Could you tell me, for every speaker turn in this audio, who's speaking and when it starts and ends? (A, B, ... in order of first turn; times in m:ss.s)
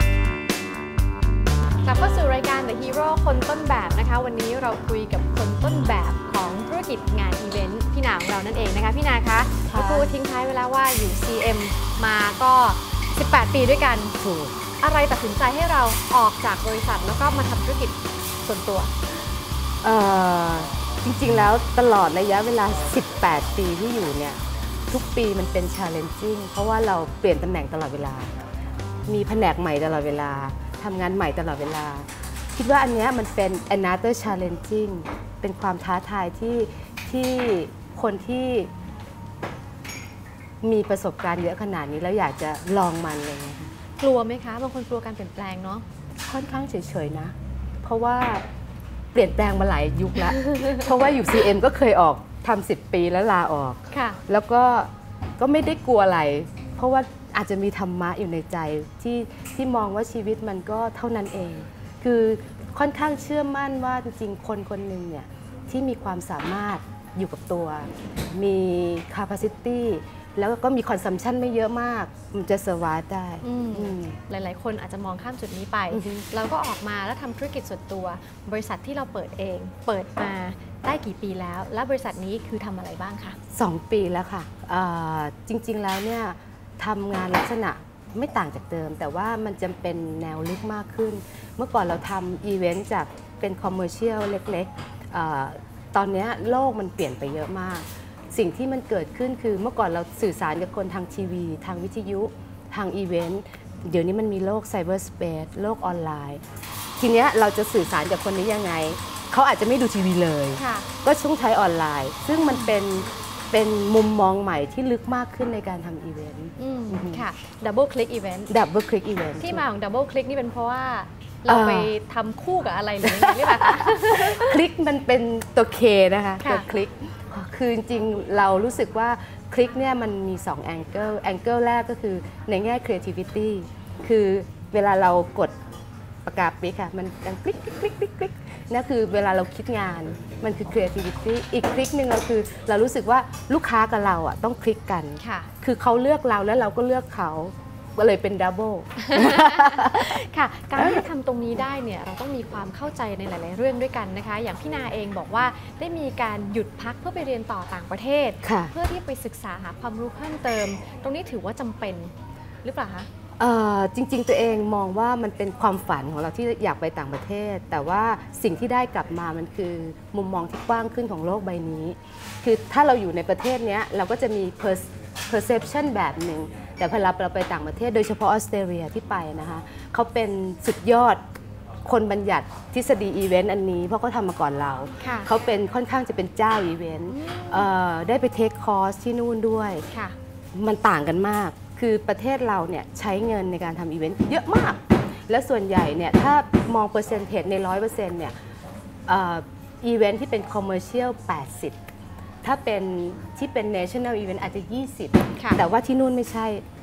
0:01.8-0:14.1 A
0:09.6-0:10.1 B
0:14.2-0:14.5 B
0:14.8-0:18.9 A
0:19.8-0:28.4 B
0:29.1-0:38.7 B
0:40.6-0:43.7 B
0:44.0-0:45.8 A
0:46.3-0:48.4 B
0:49.1-1:14.2 B
0:50.4-0:50.8 A
0:53.9-0:54.2 A
1:13.4-1:23.4 A
1:15.9-1:16.2 B
1:23.5-1:46.4 B
1:47.0-1:57.3 B
1:50.5-1:50.9 A
1:56.6-1:58.5 A
1:58.5-1:59.6 B
1:59.4-2:04.6 A
2:01.5-2:01.9 B
2:03.0-2:15.5 B
2:06.4-2:06.7 A
2:16.2-2:30.2 B
2:25.2-2:25.5 A
2:29.0-2:42.1 A
2:30.8-2:31.0 B
2:38.4-2:38.7 B
2:42.6-2:43.1 A
2:43.4-3:01.2 B
3:01.8-3:09.8 B
3:05.0-3:05.3 A
3:07.1-3:07.7 A
3:09.9-3:10.1 A
3:10.5-3:18.3 B
3:19.1-3:21.8 B
3:22.4-3:26.6 B
3:25.4-3:25.6 A